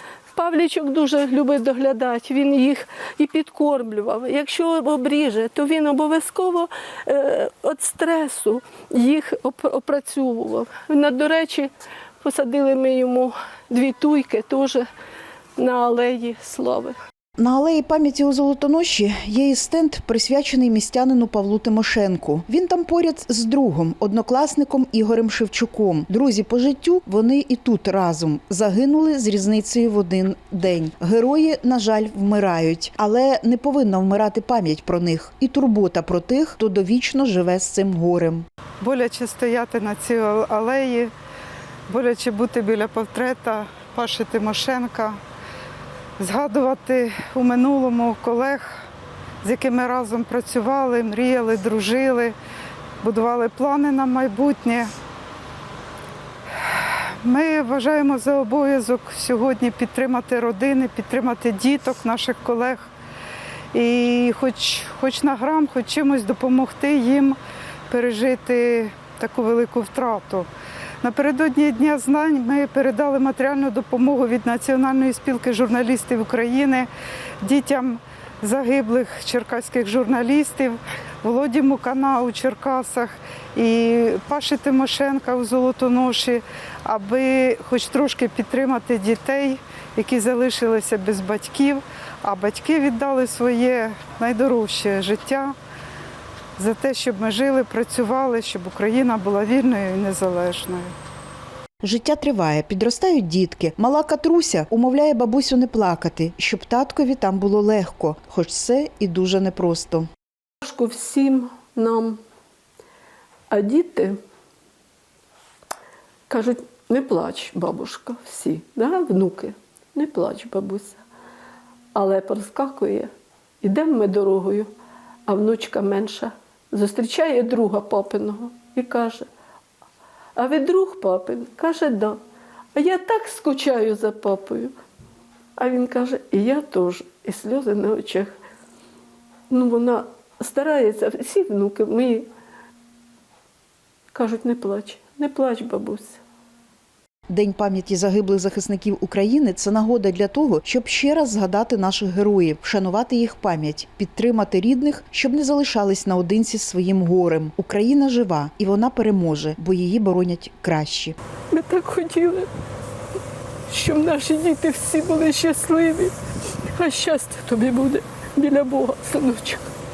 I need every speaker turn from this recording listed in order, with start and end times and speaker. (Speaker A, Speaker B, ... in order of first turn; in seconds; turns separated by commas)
Speaker A: 0.3-14.9, Speaker A: 15.6-16.9, Speaker B: 17.4-38.4, Speaker C: 38.8-41.1, Speaker C: 41.9-45.2, Speaker C: 46.2-48.8, Speaker C: 49.4-52.3, Speaker C: 53.0-54.9, Speaker C: 56.6-62.9, Speaker C: 63.7-67.4, Speaker C: 67.9-70.5, Speaker C: 71.0-76.9, Speaker C: 77.4-95.5, Speaker C: 96.6-100.9, Speaker B: 101.8-110.1, Speaker A: 110.6-112.2, Speaker A: 113.5-114.2, Speaker A: 116.3-121.0, Speaker A: 121.9-124.7, Speaker A: 125.3-129.3, Speaker A: 130.3-132.2, Speaker A: 132.7-134.7, Speaker A: 135.6-138.3, Speaker A: 139.5-142.3, Speaker A: 144.1-146.2, Speaker B: 147.3-161.2, Speaker A: 161.5-162.5, Speaker A: 163.7-166.1, Speaker A: 166.7-169.7